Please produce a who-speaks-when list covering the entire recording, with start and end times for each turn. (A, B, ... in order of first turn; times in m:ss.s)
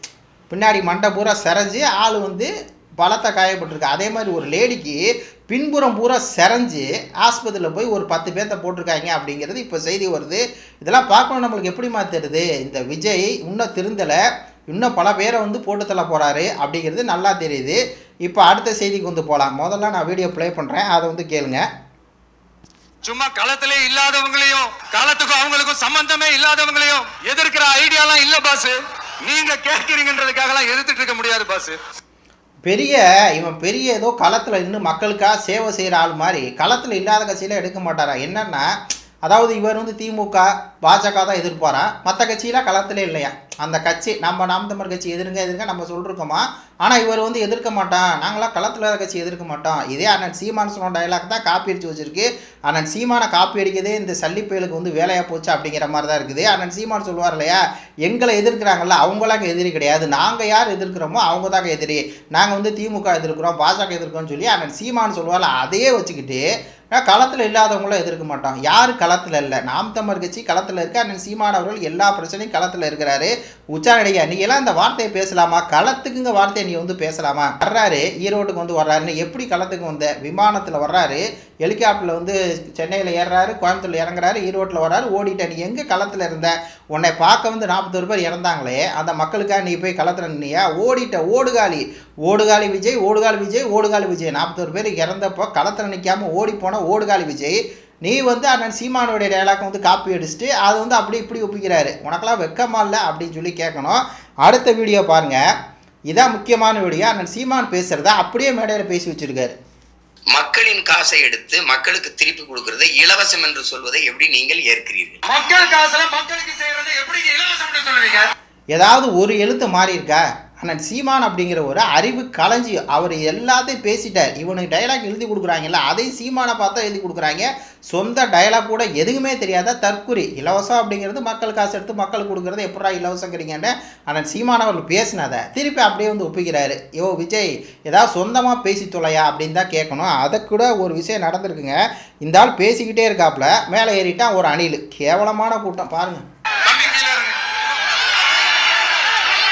0:00.5-0:14.2 A
0:14.7-0:21.6 A
0:23.1-0:31.8 B
0:32.7-0:38.7 A
0:39.2-1:45.4 A
1:46.1-1:49.5 A
1:50.3-1:55.2 C
1:55.3-1:58.3 B
1:58.8-2:26.2 A
2:26.6-2:27.4 B